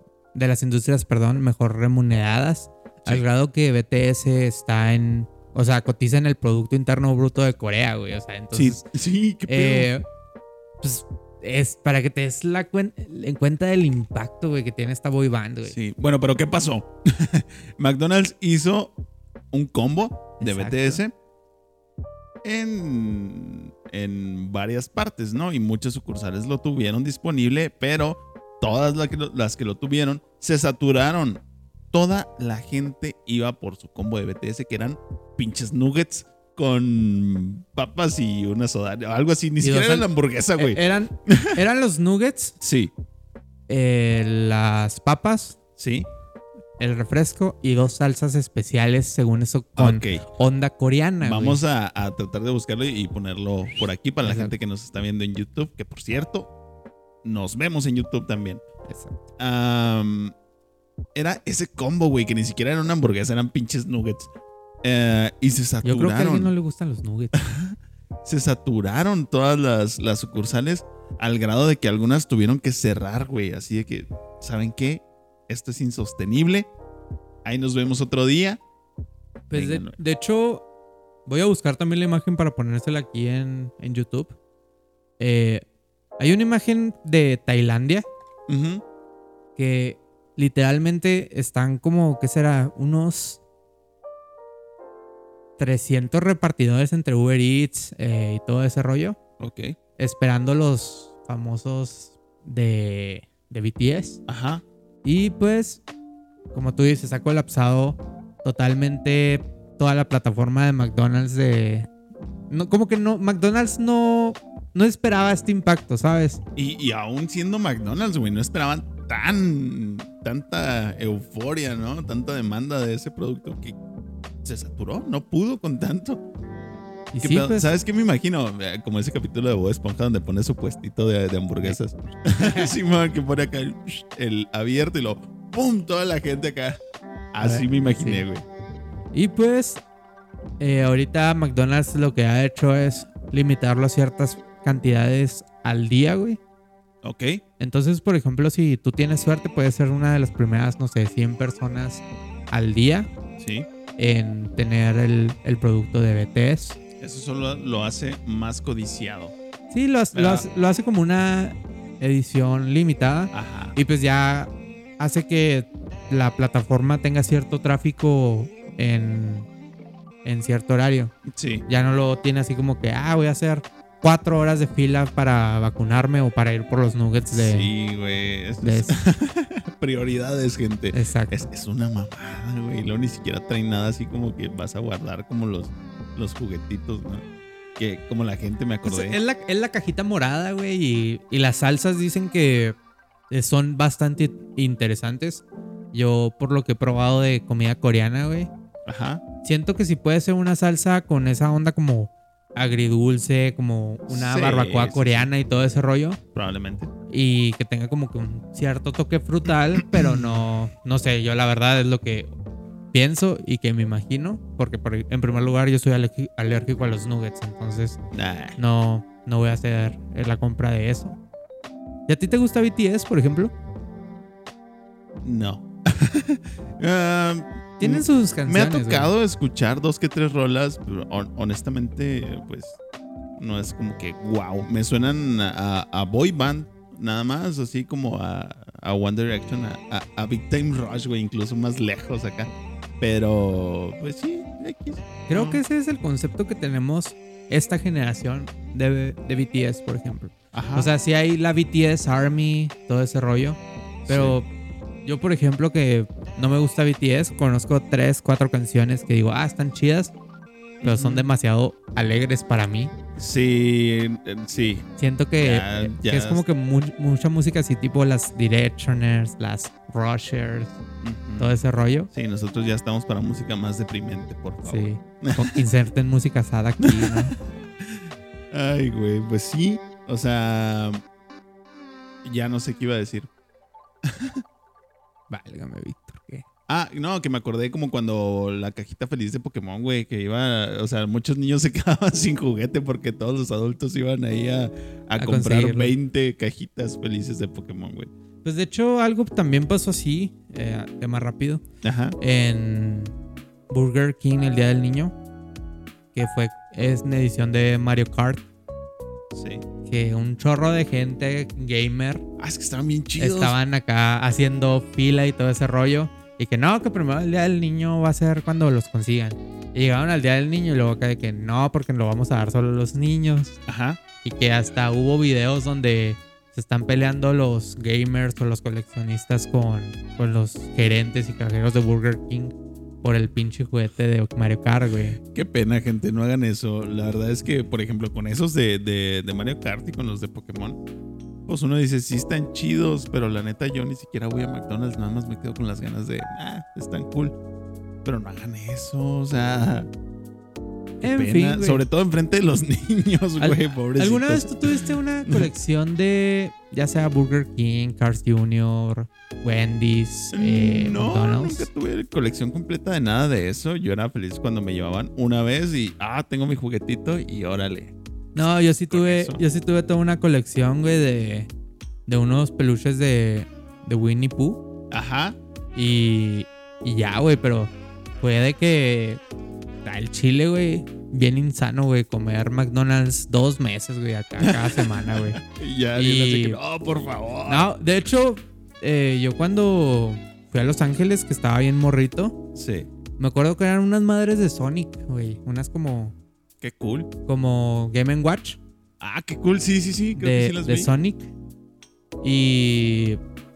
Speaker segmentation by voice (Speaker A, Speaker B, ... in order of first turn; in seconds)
Speaker A: 0.3-8.8, 9.5-10.1, 10.8-15.8, 20.4-21.0, 39.6-42.6, 43.7-45.6, 46.8-51.6, 54.2-54.5, 58.9-59.2, 65.8-67.4, 79.5-80.6, 81.3-84.4, 85.2-85.7, 86.2-88.1, 89.6-93.4, 95.6-99.2, 100.0-104.2, 105.0-105.8, 106.5-111.9, 112.5-116.4, 127.1-127.7, 132.4-132.7, 137.4-138.2, 139.1-139.8, 140.6-146.4, 147.6-153.1, 154.0-156.8, 159.7-169.5, 170.2-171.1, 171.7-177.7, 178.6-179.0, 180.9-181.4, 188.8-192.8, 193.3-198.5, 199.4-206.2, 207.1-212.3, 212.9-218.0, 218.6-221.2, 222.1-223.5, 227.8-229.1, 245.3-254.5, 255.1-260.1, 260.8-262.9, 265.0-270.8, 271.4-272.1, 274.6-277.4, 285.3-286.4, 295.2-295.9, 298.4-301.6, 302.2-303.1, 303.7-305.1, 306.1-308.4, 309.9-312.2, 313.2-323.6, 324.2-335.2, 351.0-351.8, 353.4-361.7, 368.4-371.5, 372.1-374.6, 375.8-379.2, 379.9-385.4, 386.0-386.6, 387.5-392.4, 393.2-396.1, 397.3-398.6, 400.2-401.3, 402.2-403.2
Speaker B: 8.5-9.9, 15.7-18.9, 19.5-21.1, 22.4-41.6, 42.6-42.9, 45.8-46.1, 49.8-50.2, 51.2-56.5, 57.2-58.6, 59.4-60.3, 61.1-64.3, 64.8-66.5, 67.3-76.7, 77.5-78.6, 79.5-80.0, 88.5-88.8, 99.4-99.8, 104.3-104.6, 116.6-123.8, 124.4-126.2, 127.2-136.8, 137.3-138.4, 147.0-147.4, 153.4-153.7, 157.0-159.3, 160.1-160.5, 163.3-163.8, 171.3-171.7, 177.3-187.2, 187.8-189.2, 198.9-199.2, 204.1-205.3, 206.3-206.9, 209.8-210.4, 218.1-218.6, 225.2-232.8, 233.4-245.6, 250.5-250.9, 254.1-254.4, 260.8-261.3, 263.2-264.9, 265.4-266.4, 271.0-271.6, 272.1-275.6, 276.8-281.0, 282.2-283.3, 284.0-284.4, 286.7-298.1, 301.8-302.2, 309.3-309.6, 312.4-313.6, 323.7-324.0, 335.2-340.8, 341.5-347.4, 348.1-349.9, 351.0-355.5, 360.3-369.4, 374.9-375.4, 384.4-387.7, 392.6-392.9, 396.6-397.1, 399.0-400.9